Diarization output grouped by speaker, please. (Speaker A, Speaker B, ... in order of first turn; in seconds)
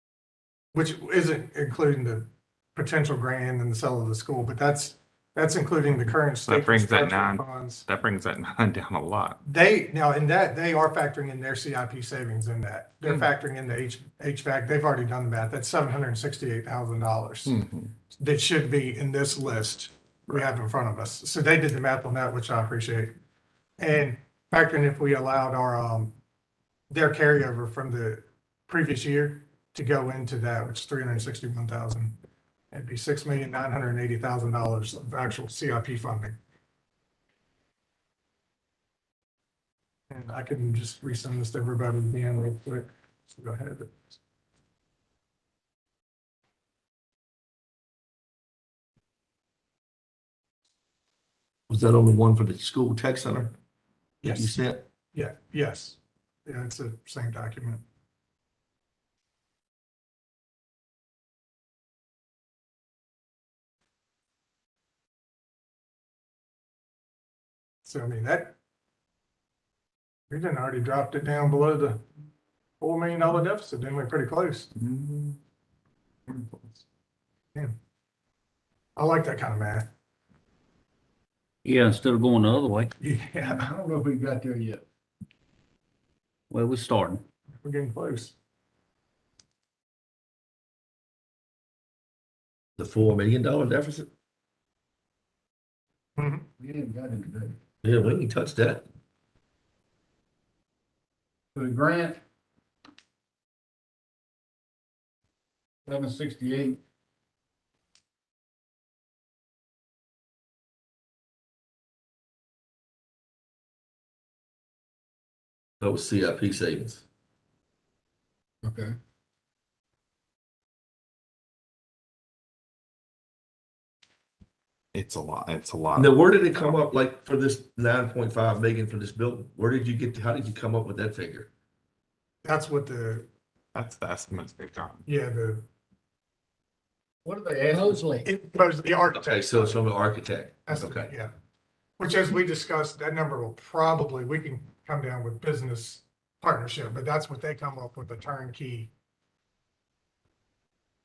Speaker A: 0.7-7.8, 9.4-17.6, 18.2-23.1, 23.8-26.2, 26.9-32.2, 32.7-36.4, 40.1-44.1, 54.2-54.6, 55.1-57.8, 67.8-68.5, 70.3-72.0, 72.8-74.7, 79.0-79.9, 83.0-83.7, 87.6-88.3, 96.2-96.5, 132.4-133.3, 135.1-135.7, 137.8-139.8, 140.7-141.3, 142.0-148.9
Speaker B: 6.5-9.4, 17.4-17.9, 74.8-75.4, 76.3-76.8, 124.9-126.1, 133.8-135.1
Speaker C: 51.7-53.5, 54.3-54.9, 92.8-94.1, 97.8-98.9, 115.8-117.0, 126.0-131.5, 139.1-141.1
Speaker D: 81.7-82.9, 86.5-87.2
Speaker E: 83.4-84.8, 96.6-97.6, 101.5-102.2, 105.9-106.8, 118.6-119.0, 137.2-138.3